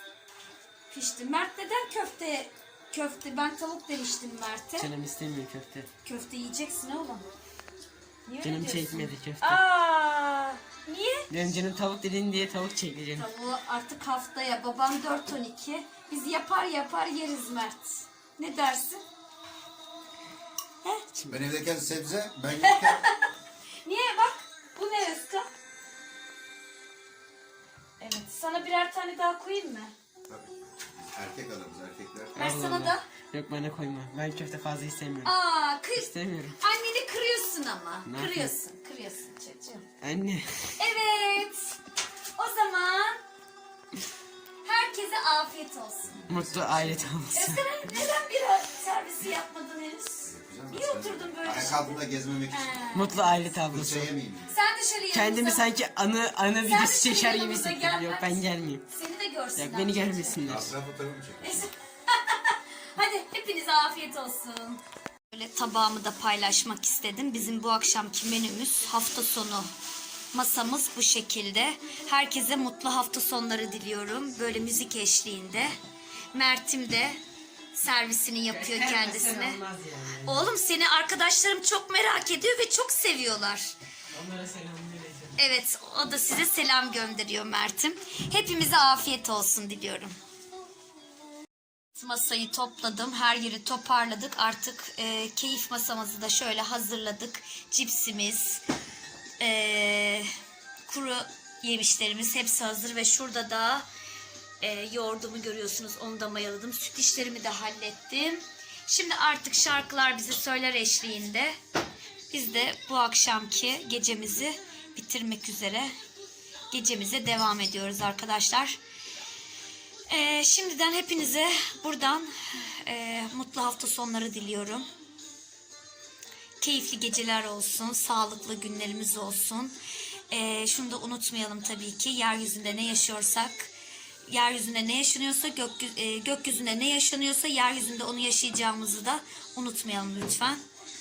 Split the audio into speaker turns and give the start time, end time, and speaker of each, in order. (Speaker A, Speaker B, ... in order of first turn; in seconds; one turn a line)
Speaker A: 0.9-4.9
Speaker B: 4.8-5.9
Speaker A: 6.0-7.2
Speaker A: 8.2-11.3
Speaker B: 8.4-9.6
Speaker B: 11.3-13.3
Speaker A: 13.1-19.0
Speaker A: 20.8-21.2
Speaker C: 21.2-23.1
Speaker A: 22.6-23.3
Speaker A: 23.8-25.5
Speaker A: 28.0-29.9
Speaker C: 30.3-32.4
Speaker B: 32.3-35.3
Speaker A: 32.4-33.0
Speaker A: 35.2-39.9
Speaker B: 35.9-36.6
Speaker B: 38.0-38.5
Speaker B: 40.0-40.7
Speaker A: 40.7-41.8
Speaker A: 42.4-43.2
Speaker A: 44.6-46.3
Speaker C: 46.0-47.1
Speaker B: 46.3-48.0
Speaker A: 47.3-53.4
Speaker C: 50.3-52.7
Speaker B: 52.9-54.1
Speaker C: 53.7-54.5
Speaker A: 54.5-55.7
Speaker B: 55.1-58.9
Speaker A: 56.6-60.4
Speaker B: 59.5-60.7
Speaker C: 60.4-61.7
Speaker A: 61.4-64.8
Speaker A: 65.3-69.7
Speaker A: 70.3-75.8
Speaker A: 76.3-77.2
Speaker A: 77.7-79.6
Speaker B: 78.5-80.4
Speaker A: 80.2-83.7
Speaker B: 84.1-85.3
Speaker A: 85.4-90.1
Speaker A: 91.9-98.6
Speaker A: 99.4-100.3
Speaker A: 100.9-103.8
Speaker A: 104.6-111.5
Speaker A: 112.3-115.9
Speaker A: 116.7-118.8
Speaker A: 120.1-124.9
Speaker A: 126.6-129.7
Speaker A: 130.3-133.7
Speaker A: 134.3-140.6